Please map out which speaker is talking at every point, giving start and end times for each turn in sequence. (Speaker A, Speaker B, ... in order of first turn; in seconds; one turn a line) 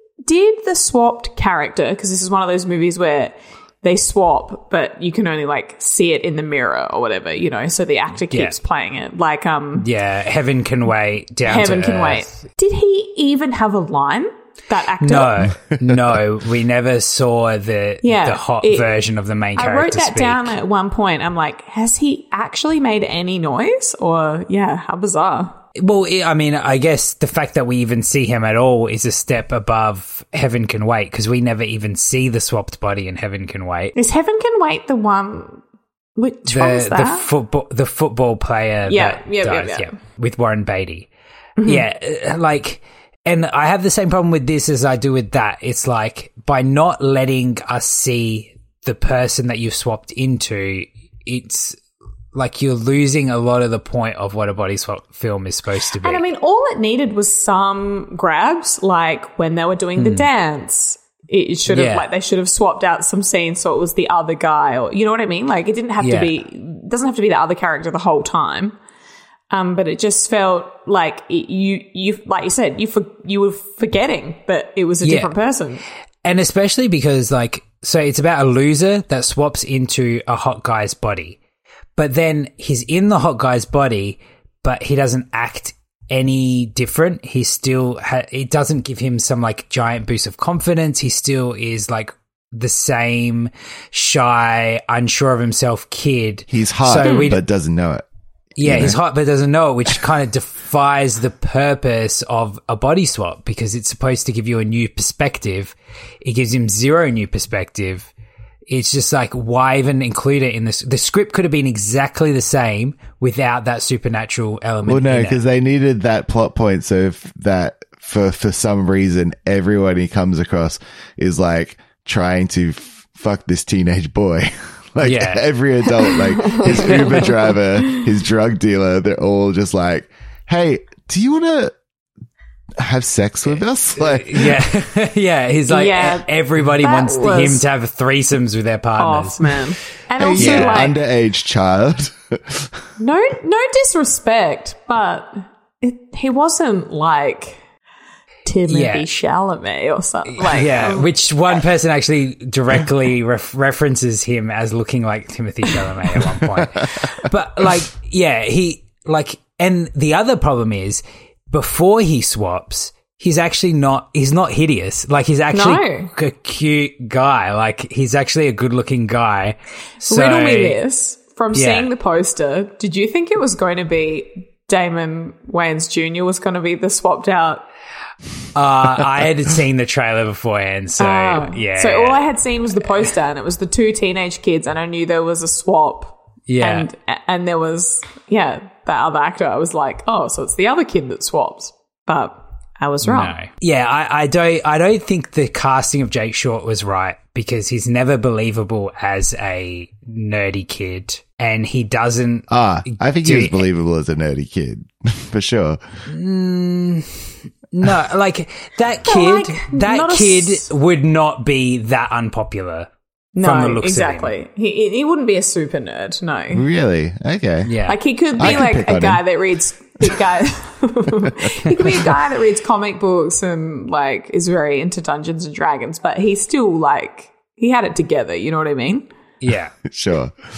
Speaker A: 0.2-9.9
Speaker B: 9.8-12.3
Speaker A: 11.4-15.4
Speaker B: 15.0-20.5
Speaker A: 18.0-18.9
Speaker A: 19.6-25.6
Speaker B: 25.8-33.9
Speaker A: 34.0-35.6
Speaker A: 36.1-37.2
Speaker B: 36.5-41.1
Speaker A: 38.9-39.9
Speaker A: 41.6-41.8
Speaker B: 41.6-51.8
Speaker B: 52.3-56.2
Speaker A: 56.0-68.7
Speaker B: 60.0-60.3
Speaker B: 61.7-62.0
Speaker B: 66.0-66.3
Speaker A: 69.5-75.8
Speaker B: 75.0-75.3
Speaker B: 76.2-81.4
Speaker B: 82.0-97.4
Speaker C: 96.5-98.0
Speaker A: 97.0-97.3
Speaker B: 98.6-108.1
Speaker C: 98.6-99.0
Speaker B: 108.7-115.4
Speaker C: 114.8-131.7
Speaker B: 125.0-125.5
Speaker A: 126.2-128.0
Speaker B: 126.8-127.3
Speaker C: 132.8-134.6
Speaker B: 133.9-139.4
Speaker A: 135.7-137.7
Speaker A: 139.0-140.9
Speaker C: 140.2-142.7
Speaker B: 140.3-140.9
Speaker A: 143.0-147.6
Speaker A: 148.4-151.6
Speaker B: 148.7-149.1
Speaker B: 150.3-170.8
Speaker C: 156.6-156.9
Speaker A: 165.5-166.1
Speaker A: 170.1-177.6
Speaker B: 171.5-171.9
Speaker B: 178.5-182.2
Speaker A: 181.0-193.4
Speaker B: 186.5-186.9
Speaker B: 193.0-203.6
Speaker C: 202.5-205.8
Speaker B: 206.1-212.9
Speaker A: 209.1-210.7
Speaker A: 213.3-216.7
Speaker B: 213.4-214.3
Speaker C: 216.5-217.7
Speaker B: 217.7-218.0
Speaker A: 217.9-229.1
Speaker C: 218.3-219.2
Speaker B: 229.4-229.7
Speaker C: 229.9-230.3